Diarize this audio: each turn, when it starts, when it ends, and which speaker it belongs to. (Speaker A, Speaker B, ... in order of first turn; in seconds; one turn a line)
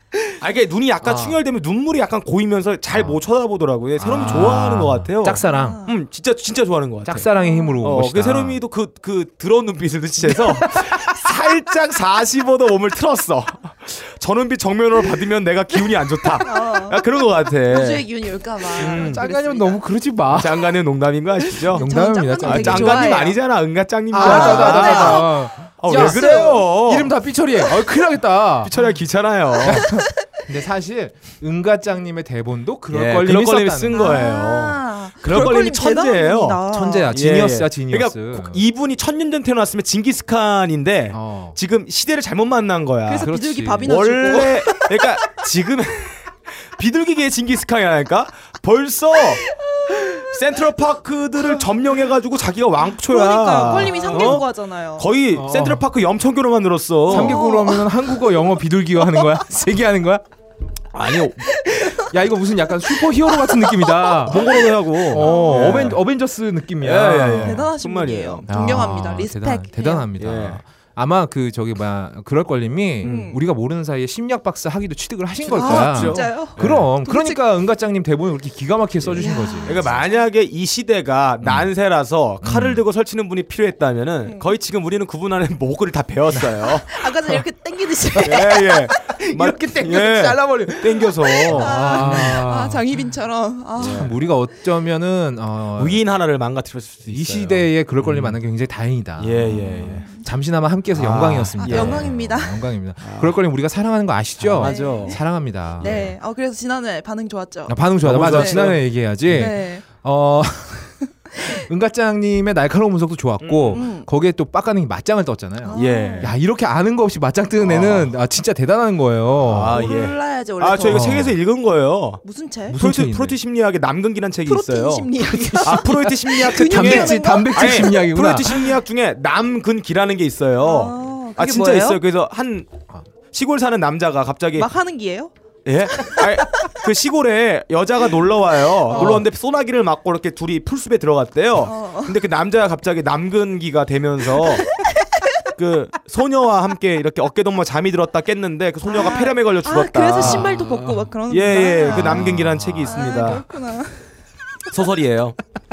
Speaker A: 0.4-7.3
Speaker B: 1.0-1.4
Speaker B: 2.9-3.2
Speaker B: 4.0-5.8
Speaker C: 5.4-5.9
Speaker B: 7.0-8.6
Speaker C: 7.4-7.7
Speaker A: 7.8-18.1
Speaker C: 16.4-17.0
Speaker C: 17.6-19.8
Speaker A: 18.7-19.2
Speaker B: 18.8-20.6
Speaker A: 20.3-21.9
Speaker C: 21.6-23.4
Speaker B: 21.7-23.2
Speaker A: 22.4-27.1
Speaker B: 24.1-28.7
Speaker C: 24.1-25.4
Speaker C: 25.9-26.6
Speaker A: 28.6-29.9
Speaker B: 29.6-34.0
Speaker A: 32.9-43.3
Speaker C: 33.9-37.2
Speaker B: 36.7-38.6
Speaker B: 41.1-41.6
Speaker C: 43.1-45.0
Speaker B: 43.2-44.2
Speaker A: 43.8-49.4
Speaker A: 50.2-57.5
Speaker C: 53.0-55.1
Speaker B: 54.0-54.4
Speaker B: 55.3-55.8
Speaker B: 57.1-60.2
Speaker C: 57.1-58.2
Speaker C: 59.0-59.3
Speaker A: 60.9-61.5
Speaker C: 61.7-62.0
Speaker B: 62.0-67.7
Speaker C: 63.2-66.0
Speaker A: 64.2-66.0
Speaker A: 66.8-68.5
Speaker C: 67.4-70.1
Speaker B: 68.5-80.0
Speaker A: 70.2-70.6
Speaker A: 73.0-73.4
Speaker C: 73.0-73.4
Speaker A: 75.4-76.9
Speaker C: 75.5-77.4
Speaker A: 79.0-87.1
Speaker C: 79.2-80.1
Speaker B: 81.4-81.7
Speaker B: 82.4-82.8
Speaker C: 86.8-94.2
Speaker A: 88.2-92.4
Speaker B: 91.4-92.8
Speaker A: 93.8-94.1
Speaker B: 93.8-96.0
Speaker A: 95.8-98.4
Speaker B: 97.1-106.1
Speaker A: 99.2-100.0
Speaker C: 99.7-100.3
Speaker A: 100.9-102.1
Speaker C: 101.6-102.6
Speaker A: 103.0-103.3
Speaker A: 104.4-105.2
Speaker C: 104.6-105.2
Speaker A: 105.8-106.1
Speaker C: 105.8-108.7
Speaker B: 107.7-119.8
Speaker A: 108.0-109.5
Speaker C: 109.3-109.8
Speaker A: 113.4-113.8
Speaker C: 113.7-114.1
Speaker C: 115.6-116.3
Speaker A: 115.7-116.3
Speaker A: 117.6-118.1
Speaker A: 119.4-122.2
Speaker C: 119.7-121.2
Speaker B: 120.9-121.4
Speaker C: 122.2-122.8
Speaker B: 122.7-123.4
Speaker A: 122.8-132.7
Speaker C: 124.5-128.0
Speaker B: 125.3-128.7
Speaker C: 130.6-132.0
Speaker A: 133.3-134.7
Speaker C: 134.6-135.3
Speaker A: 135.6-144.7
Speaker C: 136.0-136.7
Speaker C: 138.9-139.2
Speaker B: 138.9-139.2
Speaker C: 141.6-142.1
Speaker A: 145.6-150.5
Speaker C: 148.8-154.1
Speaker B: 150.1-151.1
Speaker A: 151.3-153.4
Speaker B: 151.9-153.3
Speaker A: 154.7-155.4